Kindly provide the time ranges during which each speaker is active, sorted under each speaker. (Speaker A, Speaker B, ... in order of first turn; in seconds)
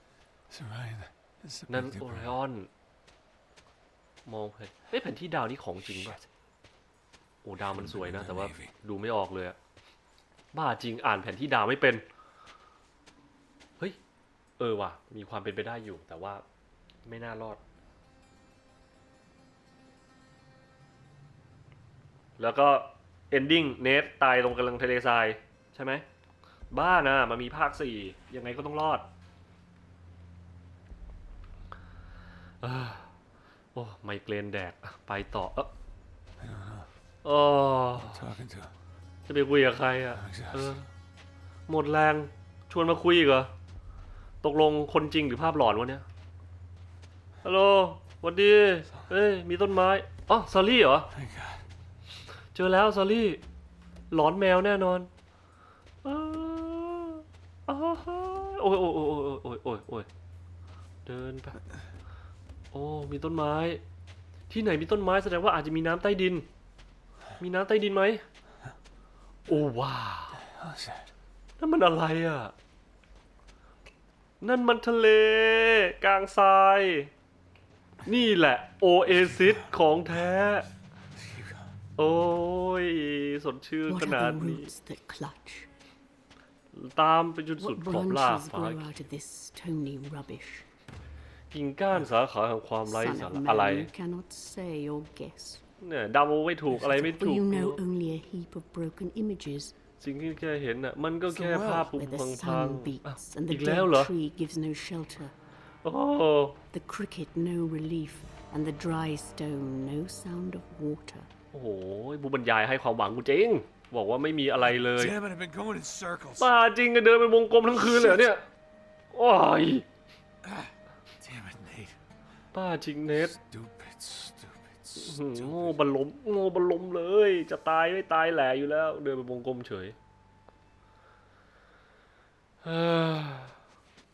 Speaker A: 0.5-2.3, 7.7-8.7, 36.4-36.9, 38.0-38.7, 40.2-40.8, 51.1-51.6, 70.5-71.1, 81.2-81.7, 101.3-101.9, 115.0-116.5, 120.4-122.0, 123.3-125.8
Speaker B: 1.7-2.7, 4.2-6.3, 7.4-9.6, 10.5-12.0, 14.6-16.4, 17.1-17.6, 22.4-26.0, 26.7-29.1, 32.6-33.1, 33.8-35.7, 37.2-38.3, 39.3-40.9, 41.7-43.5, 44.4-46.0, 47.4-51.1, 52.5-53.4, 54.1-55.1, 56.0-60.1, 61.0-61.6, 62.7-63.8, 64.5-66.5, 67.4-68.2, 69.5-70.4, 71.6-72.5, 74.4-77.1, 78.0-80.7, 82.0-84.7, 86.7-89.0, 91.5-93.9, 95.8-97.8, 100.0-104.1, 105.8-106.6, 111.5-115.1, 116.4-118.4, 119.1-119.9, 122.5-123.4, 125.0-130.0, 132.6-133.6
Speaker C: 83.9-85.7, 87.6-90.7, 92.9-95.6, 96.8-99.8, 101.7-105.3, 106.7-111.3